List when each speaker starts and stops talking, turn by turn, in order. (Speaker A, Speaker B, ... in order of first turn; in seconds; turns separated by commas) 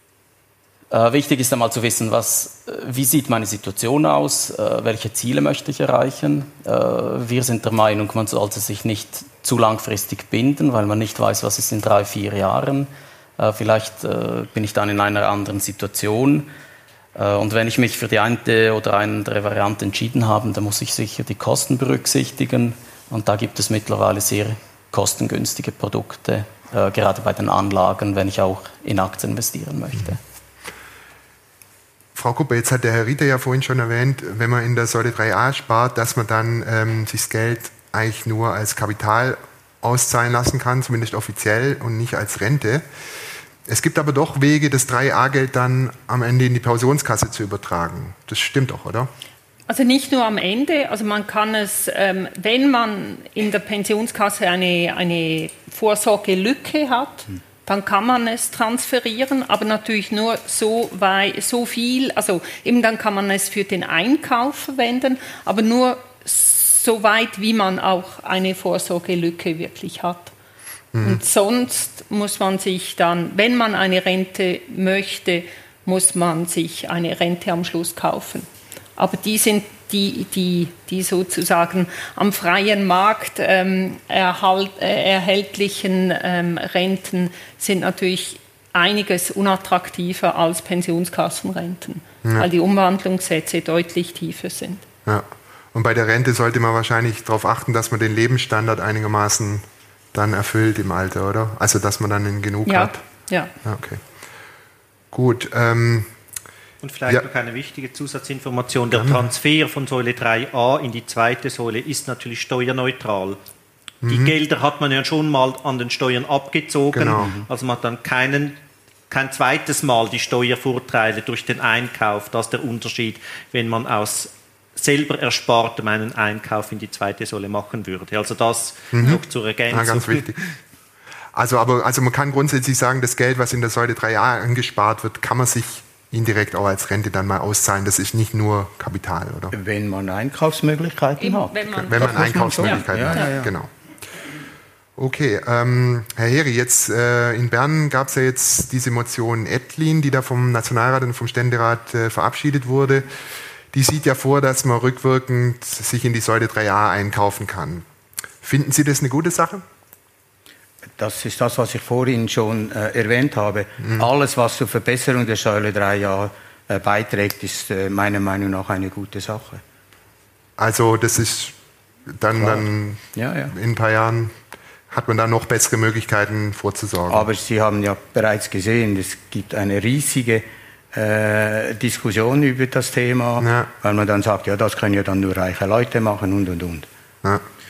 Speaker A: 0.9-16.5, Speaker A: 17.1-30.2, Speaker B: 32.1-42.8, Speaker B: 43.7-49.1, Speaker C: 49.7-70.3, Speaker B: 70.9-71.2, Speaker C: 71.0-94.8, Speaker B: 95.0-103.0, Speaker C: 102.7-103.5, Speaker B: 103.6-104.0, Speaker B: 105.1-106.1, Speaker D: 106.8-113.4, Speaker B: 108.9-109.2, Speaker B: 114.0-114.3, Speaker D: 114.0-118.5, Speaker B: 116.9-117.3, Speaker E: 117.2-117.5, Speaker D: 119.1-130.3, Speaker B: 128.9-130.4, Speaker B: 131.3-139.5, Speaker E: 139.5-143.5, Speaker C: 141.2-143.3, Speaker B: 141.7-143.7, Speaker B: 145.0-153.1, Speaker B: 153.7-157.8, Speaker B: 158.4-159.6, Speaker E: 161.0-169.6, Speaker B: 170.6-171.5, Speaker B: 172.1-174.4, Speaker E: 172.4-173.5, Speaker B: 174.9-177.3, Speaker E: 177.1-186.9, Speaker B: 183.4-183.7